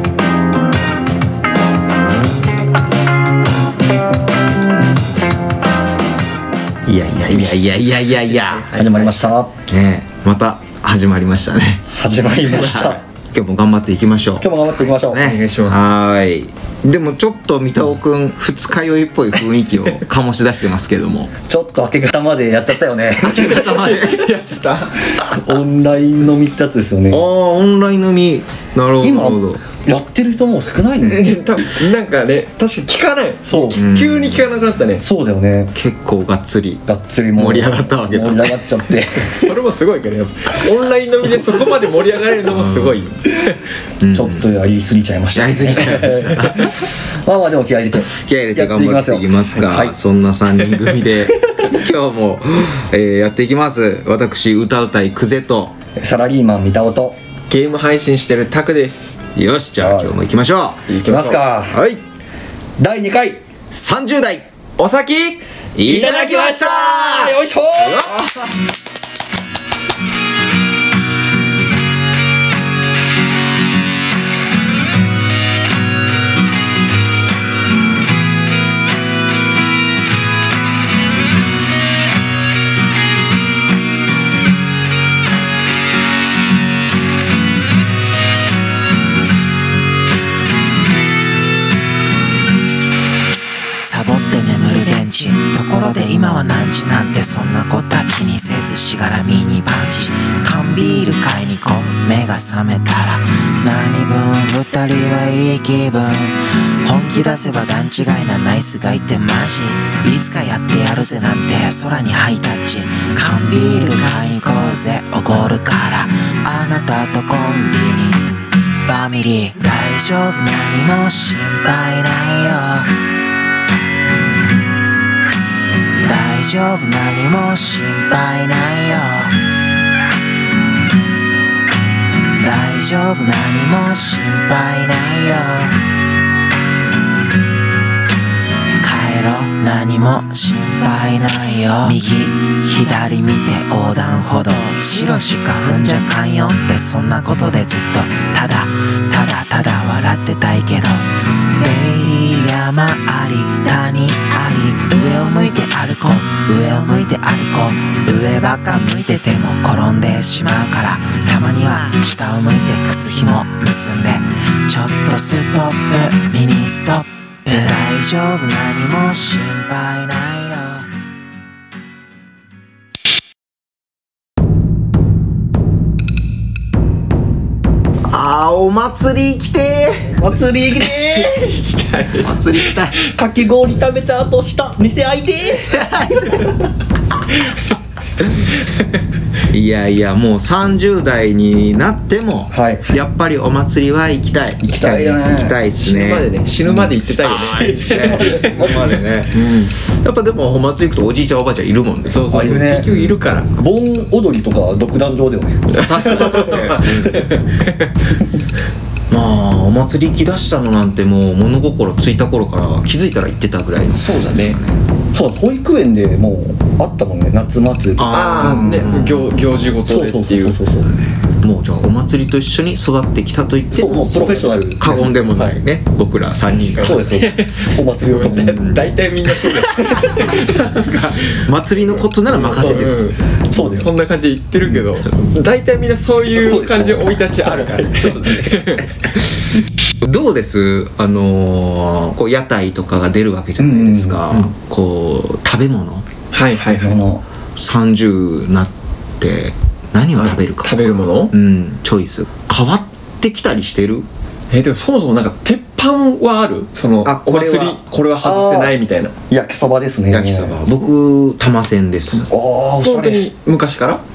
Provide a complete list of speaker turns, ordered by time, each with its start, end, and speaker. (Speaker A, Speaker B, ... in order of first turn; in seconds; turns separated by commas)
Speaker A: 6.9-8.7, Speaker B: 8.0-9.3, Speaker C: 8.7-9.6, Speaker A: 9.7-21.3, Speaker C: 11.9-13.0, Speaker C: 14.4-15.3, Speaker B: 15.2-15.9, Speaker C: 21.5-23.6, Speaker B: 23.2-25.0, Speaker A: 23.3-24.2, Speaker C: 25.2-27.2, Speaker A: 27.1-29.7, Speaker C: 29.0-31.4, Speaker B: 31.0-35.0, Speaker C: 33.5-33.9, Speaker A: 33.7-34.5, Speaker C: 35.0-35.7, Speaker A: 35.7-38.8, Speaker C: 36.9-39.5, Speaker B: 39.2-43.6, Speaker C: 41.2-41.7, Speaker A: 42.5-43.1, Speaker A: 44.0-44.5, Speaker C: 44.1-49.9, Speaker A: 45.3-46.9, Speaker A: 48.1-55.8, Speaker C: 51.3-51.6, Speaker C: 56.0-57.2, Speaker B: 57.5-59.2, Speaker A: 59.3-60.9, Speaker C: 59.8-60.2, Speaker B: 60.9-61.5, Speaker C: 61.0-61.8, Speaker A: 61.7-62.0, Speaker C: 62.8-63.4, Speaker A: 63.7-64.5, Speaker B: 64.8-65.4, Speaker A: 65.8-68.2, Speaker C: 65.8-68.2, Speaker D: 93.7-122.9, Speaker D: 126.0-129.4, Speaker D: 132.3-135.8, Speaker D: 138.8-170.9, Speaker A: 178.1-180.2, Speaker C: 180.1-181.5, Speaker B: 180.8-183.0, Speaker A: 182.2-183.0, Speaker C: 183.0-186.4, Speaker A: 185.6-186.6, Speaker A: 189.5-196.4, Speaker C: 192.5-192.9, Speaker C: 194.6-195.6, Speaker B: 195.7-199.7, Speaker C: 196.6-199.0, Speaker A: 197.0-202.3, Speaker B: 202.1-203.5, Speaker C: 202.2-202.9, Speaker C: 203.5-207.3, Speaker B: 205.7-207.9, Speaker A: 205.8-207.2, Speaker A: 209.1-214.8, Speaker B: 213.9-214.6, Speaker C: 215.1-218.9, Speaker A: 218.0-219.4, Speaker B: 218.1-220.6, Speaker C: 219.8-220.9, Speaker A: 220.9-227.1, Speaker C: 223.7-225.6, Speaker B: 226.5-238.9, Speaker C: 226.8-228.8, Speaker A: 228.5-233.0, Speaker C: 232.5-232.9, Speaker C: 233.5-233.9, Speaker C: 236.3-238.6, Speaker A: 240.0-246.1, Speaker C: 243.6-244.3, Speaker B: 246.3-247.0, Speaker C: 246.5-247.2, Speaker A: 247.6-254.1, Speaker B: 250.2-251.3, Speaker B: 254.5-259.1, Speaker A: 257.0-257.8, Speaker C: 258.2-258.8, Speaker C: 259.3-260.6, Speaker A: 260.1-262.3, Speaker B: 262.1-264.0, Speaker C: 262.3-263.3